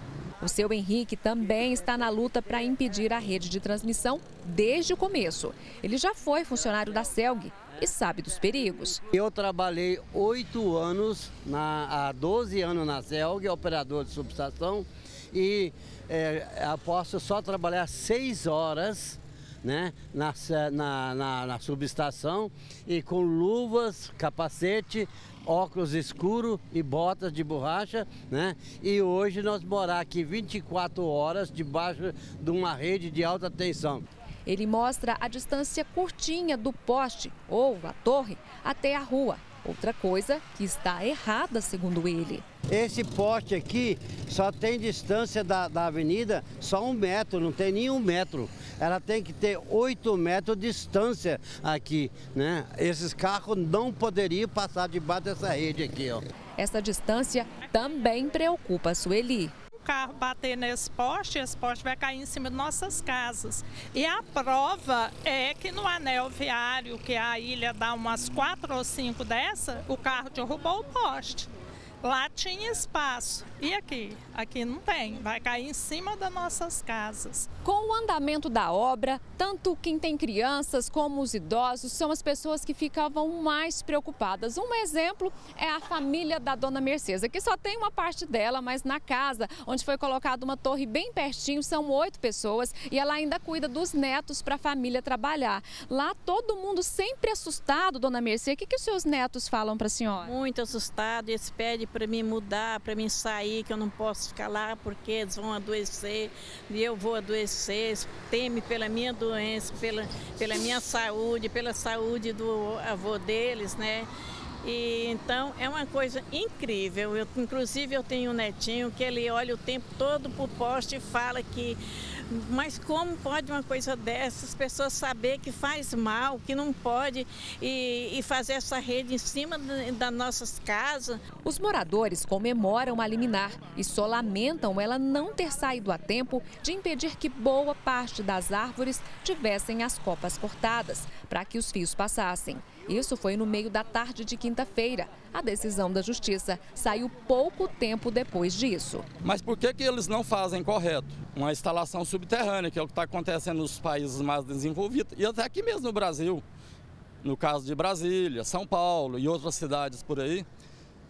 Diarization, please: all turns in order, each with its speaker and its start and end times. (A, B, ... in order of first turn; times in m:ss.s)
0:00.4-0:09.0 A
0:09.1-0:34.0 B
0:34.4-0:42.4 A
0:42.7-0:56.2 B
0:56.6-0:59.5 A
0:59.8-1:11.5 C
1:12.0-1:17.5 C
1:17.6-1:40.3 A
1:40.2-1:54.1 D
1:54.6-2:01.8 D
2:02.3-2:11.2 D
2:11.4-2:29.0 A
2:29.2-2:36.4 E
2:37.2-2:40.4 E